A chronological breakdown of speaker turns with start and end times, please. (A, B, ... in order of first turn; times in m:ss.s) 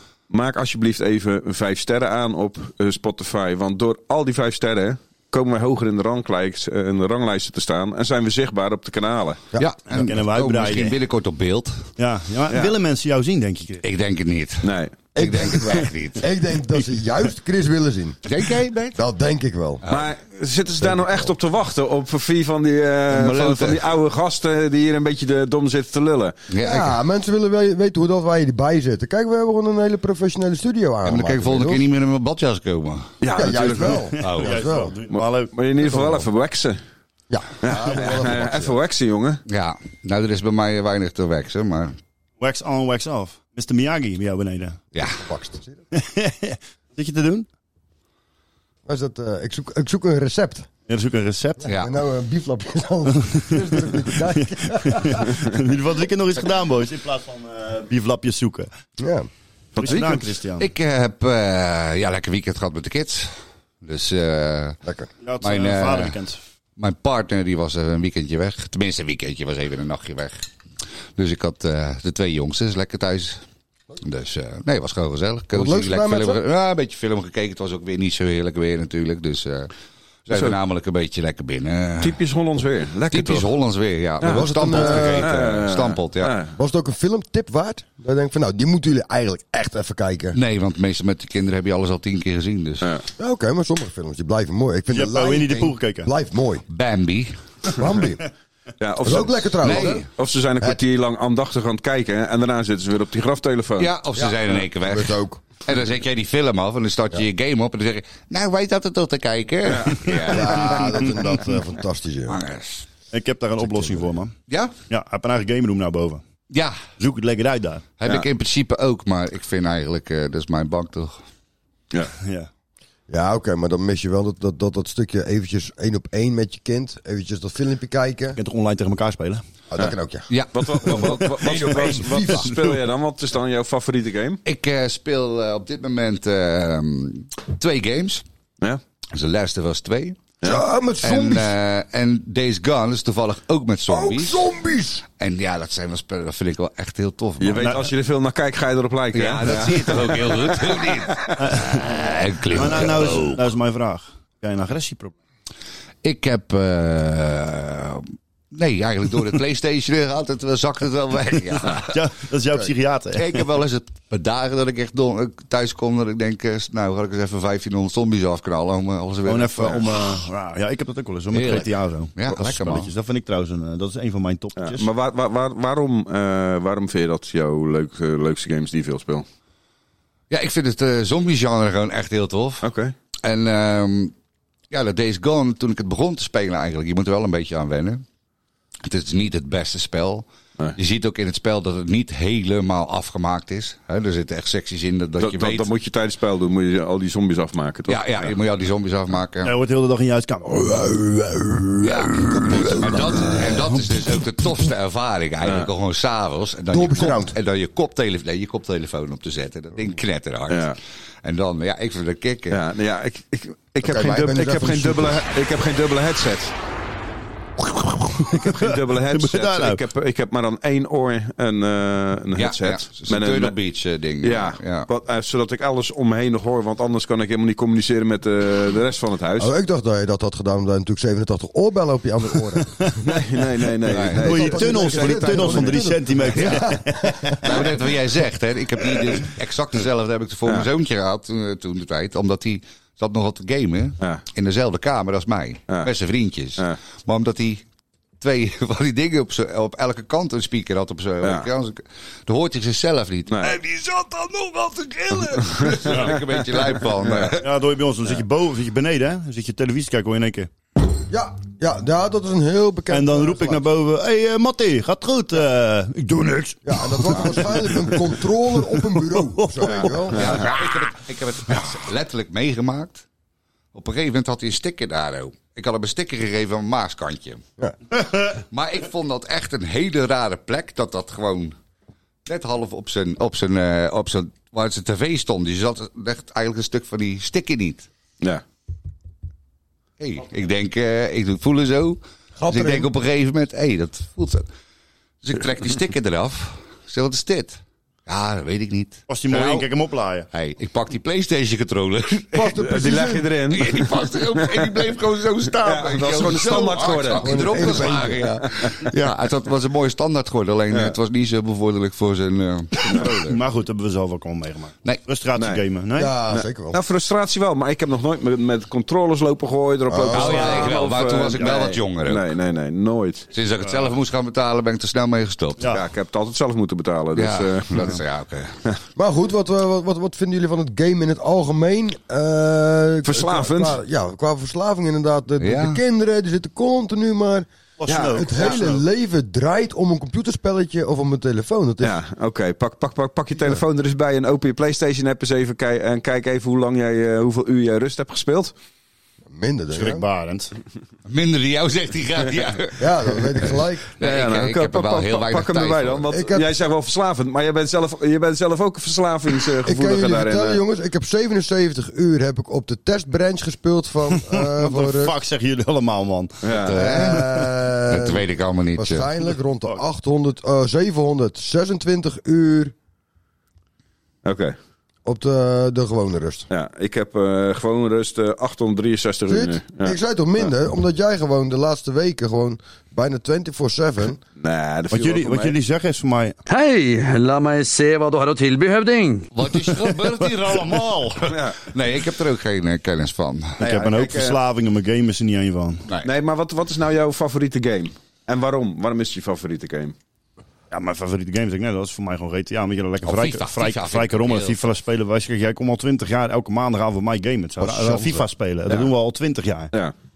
0:00.3-0:09.4 A
0:09.6-0:11.8 B
0:09.9-0:11.0 C
0:12.0-0:13.8 C
0:13.8-0:16.3 B
0:14.6-0:14.9 A
0:15.2-0:18.2 D
0:18.2-0:19.0 B
0:18.9-0:19.8 D
0:19.8-0:20.1 B
0:19.9-0:26.3 A
0:20.8-0:21.3 B
0:23.1-0:23.8 B
0:26.5-0:27.0 B
0:26.6-0:31.8 D
0:31.0-0:33.1 B
0:33.2-0:34.1 A
0:33.3-0:35.0 D
0:34.1-0:36.3 C
0:34.2-0:34.6 B
0:35.1-0:36.8 A
0:37.3-0:38.7 D
0:37.6-0:39.4 A
0:39.5-0:42.0 B
0:42.4-0:44.8 C
0:44.9-0:45.2 B
0:45.2-0:45.8 D
0:45.9-0:47.5 C
0:48.8-0:50.7 D
0:50.9-0:51.7 C
0:51.7-0:52.0 B
0:51.7-0:55.4 D
0:54.8-0:58.7 C
0:59.0-0:59.3 D
0:59.7-1:00.2 A
0:59.8-1:00.7 C
1:00.6-1:04.8 B
1:05.2-1:06.4 C
1:05.4-1:06.2 B
1:06.8-1:10.5 B
1:11.2-1:13.4 B
1:14.0-1:19.7 B
1:15.5-1:16.4 D
1:20.2-1:22.2 B
1:20.3-1:20.6 A
1:22.0-1:23.5 A
1:23.1-1:26.4 B
1:24.2-1:26.5 A
1:24.3-1:25.3 D
1:26.6-1:30.4 D
1:30.3-1:32.9 B
1:33.2-1:36.6 D
1:34.9-1:36.1 C
1:36.7-1:37.3 B
1:37.7-1:38.3 D
1:38.8-1:43.9 A
1:39.0-1:40.1 D
1:39.6-1:40.1 B
1:43.8-1:51.2 B
1:44.2-1:45.4 D
1:49.6-1:50.2 A
1:50.2-1:52.4 D
1:52.3-1:52.9 B
1:53.1-1:54.3 C
1:54.5-1:54.7 B
1:54.9-1:56.2 C
1:56.5-1:56.8 B
1:57.0-1:57.8 C
1:58.0-2:01.2 B
2:02.2-2:02.5 C
2:03.1-2:08.4 D
2:08.4-2:09.4 C
2:09.7-2:10.3 D
2:10.3-2:12.0 B
2:10.5-2:14.4 A
2:10.8-2:12.5 D
2:14.4-2:18.2 B
2:19.1-2:20.3 B
2:20.4-2:21.5 D
2:21.0-2:24.4 B
2:23.9-2:25.0 D
2:25.2-2:27.7 B
2:27.4-2:30.2 A
2:27.6-2:27.8 C
2:29.1-2:33.4 B
2:31.4-2:31.9 C
2:32.5-2:35.1 C
2:36.0-2:41.9 B
2:41.7-2:43.4 C
2:43.1-2:50.2 B
2:49.2-2:54.9 C
2:51.3-2:52.9 B
2:54.6-2:59.2 A
3:00.3-3:02.7 B
3:02.6-3:02.9 A
3:03.2-3:04.1 B
3:04.7-3:08.0 B
3:08.8-3:15.7 B
3:15.2-3:18.3 A
3:17.9-3:19.5 B
3:19.4-3:22.2 C
3:21.8-3:32.6 B
3:22.5-3:23.4 D
3:25.4-3:25.7 A
3:26.7-3:27.3 D
3:30.5-3:30.8 A
3:32.5-3:36.5 A
3:33.8-3:35.2 D
3:33.9-3:34.3 B
3:37.8-3:39.8 C
3:38.3-3:43.5 A
3:42.3-3:44.9 B
3:44.2-3:49.5 A
3:49.4-3:52.9 D
3:53.0-3:55.8 A
3:53.9-3:54.2 B
3:54.2-3:57.3 C
3:54.2-3:57.5 D
3:57.4-4:07.6 B
4:08.2-4:17.5 B
4:11.2-4:11.5 A
4:13.3-4:13.6 A
4:15.6-4:17.3 A
4:17.4-4:20.5 C
4:21.1-4:23.6 D
4:22.9-4:28.0 C
4:26.6-4:30.4 D
4:29.1-4:30.0 C
4:29.7-4:30.3 A
4:30.1-4:33.0 B
4:33.7-4:37.4 B
4:38.0-4:41.6 B
4:42.2-4:47.9 B
4:50.0-4:54.5 B
4:52.4-4:52.9 D
4:55.2-4:59.7 B
4:59.1-5:00.3 C
5:00.3-5:02.5 B
5:02.3-5:03.3 D
5:02.4-5:04.7 A
5:03.5-5:13.4 B
5:05.6-5:08.0 A
5:06.7-5:08.4 D
5:13.2-5:16.1 C
5:16.0-5:16.8 D
5:16.3-5:23.3 A
5:19.9-5:20.7 D
5:20.1-5:22.3 B
5:23.3-5:25.8 B
5:25.6-5:28.0 A
5:27.1-5:28.6 B
5:29.0-5:37.5 D
5:33.0-5:33.8 A
5:35.4-5:35.8 B
5:37.8-5:38.8 C
5:37.9-5:38.6 A
5:38.1-5:42.0 D
5:41.8-5:48.5 A
5:49.3-5:50.0 D
5:49.7-5:50.5 C
5:51.0-5:56.1 B
5:52.8-5:53.8 D
5:54.0-6:00.6 A
5:56.1-5:56.5 D
5:59.6-6:05.1 D
6:04.1-6:06.3 C
6:06.4-6:06.8 A
6:06.6-6:09.1 B
6:06.7-6:08.2 D
6:08.8-6:12.7 D
6:14.2-6:14.5 A
6:15.0-6:16.4 D
6:16.5-6:20.5 A
6:19.3-6:24.2 D
6:24.4-6:25.5 A
6:24.9-6:26.4 C
6:26.4-6:29.3 E
6:29.3-6:33.6 B
6:30.0-6:30.8 C
6:31.3-6:31.6 A
6:33.6-6:35.8 C
6:33.6-6:34.4 A
6:36.0-6:39.9 A
6:40.7-6:49.7 C
6:43.0-6:44.7 B
6:47.6-6:48.2 D